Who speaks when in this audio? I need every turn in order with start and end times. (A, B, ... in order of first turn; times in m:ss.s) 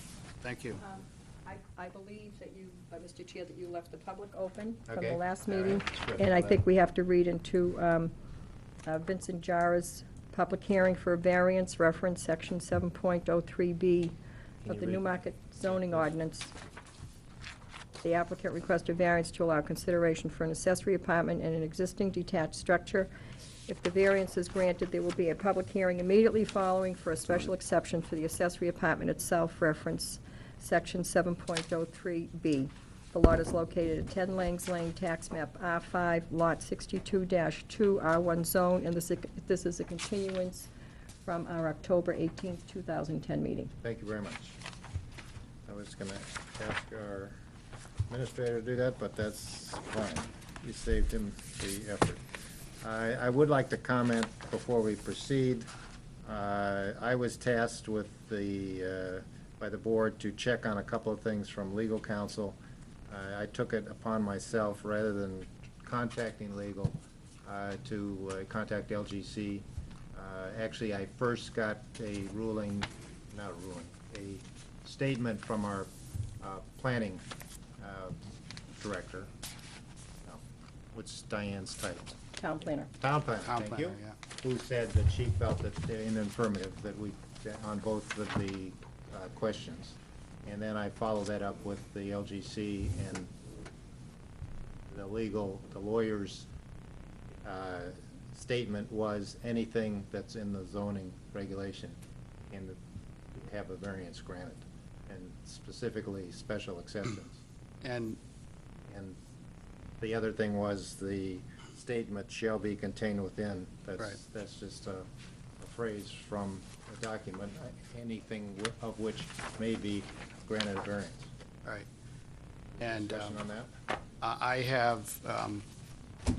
0:00.4-0:00.8 A
0:00.8-0:08.1 B
0:04.9-0:06.6 C
0:08.8-0:16.5 B
0:14.6-0:15.1 C
0:15.6-0:16.1 C
0:18.0-0:23.1 B
0:23.7-0:40.7 B
0:41.2-0:43.7 B
0:43.8-0:44.6 C
0:45.7-0:47.3 C
0:48.1-0:52.2 C
0:52.8-0:55.7 C
0:56.2-1:02.6 C
1:03.1-1:15.9 C
1:16.4-1:17.2 C
1:17.8-1:18.2 C
1:18.8-1:19.3 C
1:20.9-1:22.2 C
1:22.4-1:22.9 B
1:23.0-1:33.3 C
1:23.4-1:24.2 A
1:34.9-1:36.5 C
1:37.4-1:42.0 C
1:42.5-1:42.8 C
1:43.3-1:47.4 C
1:47.8-1:48.2 A
1:48.9-1:49.2 C
1:50.0-1:55.0 C
1:55.6-2:01.3 C
2:02.8-2:03.7 C
2:02.8-2:03.3 A
2:04.2-2:05.6 A